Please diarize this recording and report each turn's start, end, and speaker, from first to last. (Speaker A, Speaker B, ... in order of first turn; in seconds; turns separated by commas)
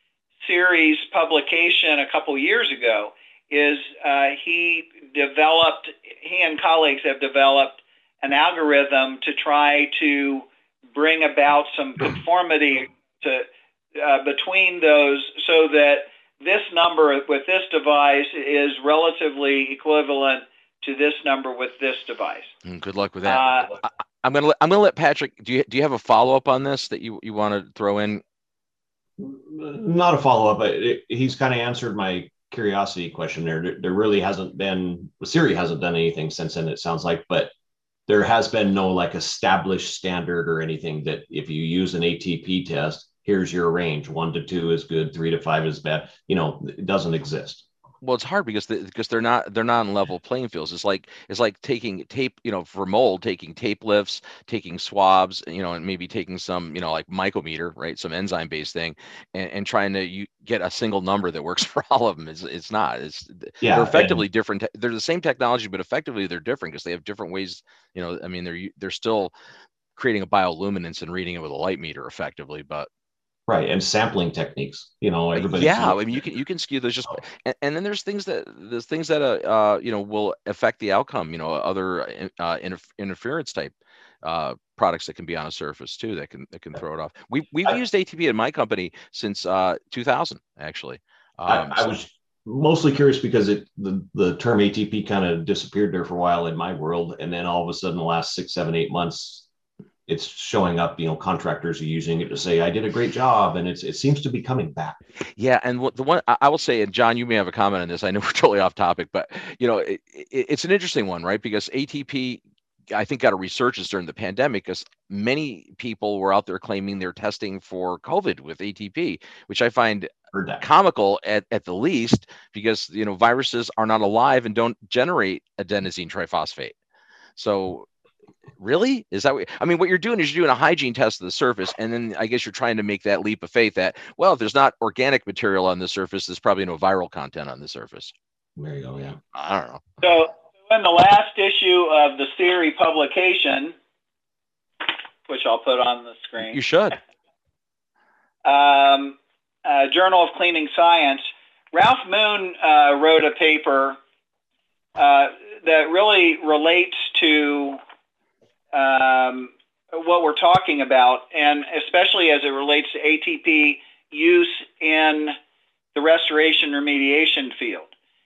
Speaker A: 0.4-22.5, Speaker B: 22.6-28.2, Speaker A: 23.2-23.7, Speaker C: 29.2-37.5, Speaker C: 38.1-47.6, Speaker B: 48.0-69.3, Speaker C: 63.6-64.2, Speaker B: 70.0-72.9, Speaker C: 73.5-76.2, Speaker B: 75.3-91.9, Speaker C: 91.5-99.5, Speaker C: 100.1-105.0, Speaker B: 105.4-126.7, Speaker C: 120.3-120.6, Speaker B: 127.4-127.9, Speaker B: 128.6-138.1, Speaker C: 138.6-139.2, Speaker B: 139.3-139.8, Speaker A: 140.0-143.7, Speaker A: 145.3-146.6, Speaker B: 146.4-147.0, Speaker A: 148.4-154.0, Speaker A: 155.0-157.8, Speaker A: 158.7-165.3, Speaker A: 165.9-167.9